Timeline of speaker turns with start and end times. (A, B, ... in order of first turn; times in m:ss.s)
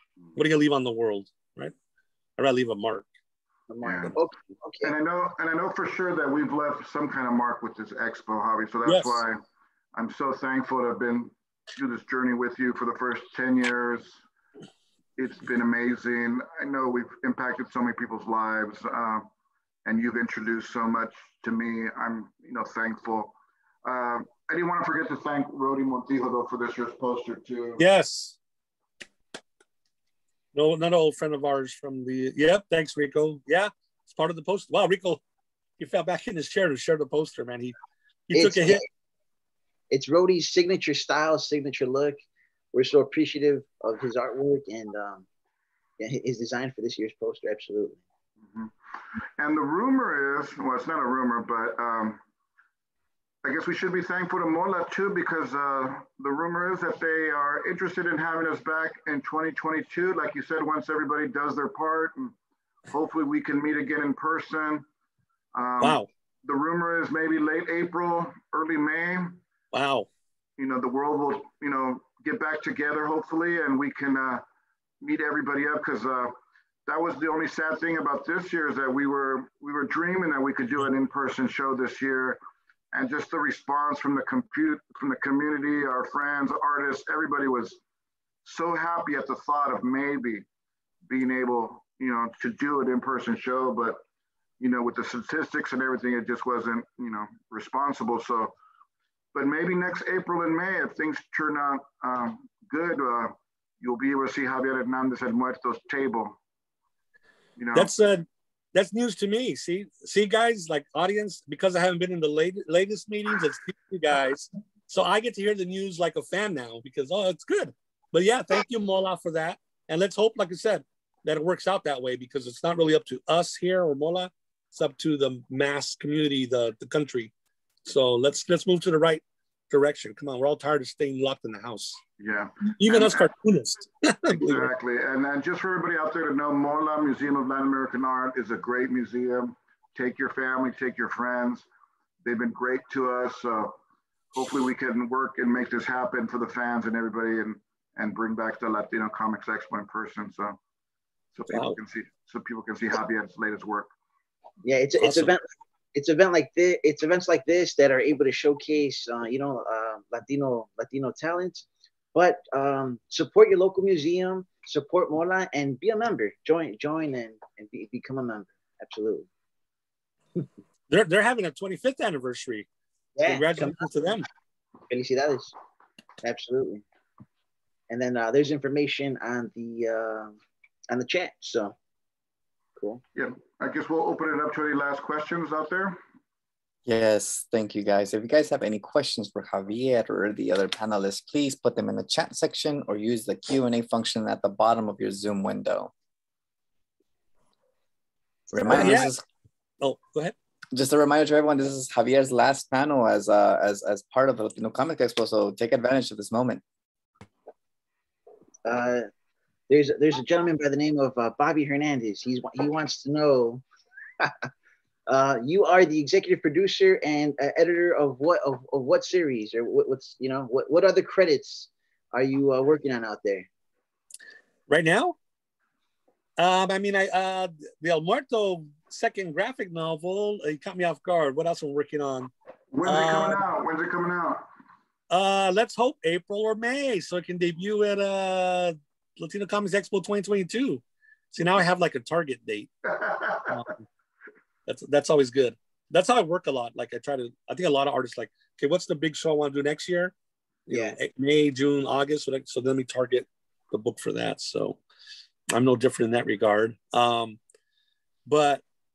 0:00.3-0:01.7 A
0:02.4-0:03.1 A
0:03.7-0:04.9 B
0:03.8-0:04.1 C
0:04.8-0:09.4 C
0:08.8-0:09.2 A
0:09.9-0:14.2 C
0:15.2-0:19.2 C
0:19.8-0:27.8 C
0:27.8-0:28.4 A
0:30.5-0:35.2 A
0:35.8-0:37.7 A
0:38.3-0:38.8 A
0:38.3-0:38.8 B
0:39.9-0:42.2 B
0:42.7-0:45.2 B
0:46.0-0:48.0 B
0:48.5-0:48.7 C
0:49.4-0:52.2 C
0:53.4-1:02.3 C
1:02.9-1:04.8 C
1:05.5-1:09.4 C
1:05.8-1:06.1 A
1:09.7-1:10.1 A
1:10.6-1:14.4 C
1:15.0-1:16.3 C
1:16.8-1:22.4 C
1:22.9-1:27.8 C
1:28.4-1:30.4 C
1:31.1-1:34.0 C
1:34.6-1:38.5 C
1:39.3-1:46.4 C
1:47.6-1:47.9 C
1:47.7-2:07.3 A
2:07.8-2:12.0 A
2:12.2-2:13.3 C
2:12.8-2:14.7 A
2:14.3-2:21.7 C
2:22.2-2:23.7 C
2:24.3-2:30.6 C
2:31.3-2:33.9 C
2:31.5-2:31.8 A
2:34.6-2:49.3 B
2:35.0-2:35.3 A
2:50.9-2:52.7 A
2:53.2-2:53.8 B
2:53.2-2:54.2 A
2:54.9-2:55.5 B
2:56.2-2:56.8 B
2:57.9-3:00.4 B
3:00.9-3:01.7 B
3:03.1-3:06.0 C
3:06.8-3:15.9 D
3:18.5-3:19.2 D
3:18.7-3:19.1 A
3:19.8-3:20.3 A
3:20.7-3:26.6 D
3:28.6-3:29.1 B
3:29.7-3:33.6 B
3:34.2-3:34.5 B
3:35.1-3:43.5 B
3:44.7-3:45.2 A
3:46.4-3:52.3 A
3:52.7-3:54.5 C
3:52.8-3:53.4 A
3:55.1-4:00.8 A
4:01.3-4:02.7 A
4:02.9-4:03.6 C
4:03.5-4:03.8 A
4:04.7-4:10.1 A
4:10.7-4:14.8 A
4:10.7-4:11.0 B
4:15.5-4:17.4 A
4:18.2-4:18.6 A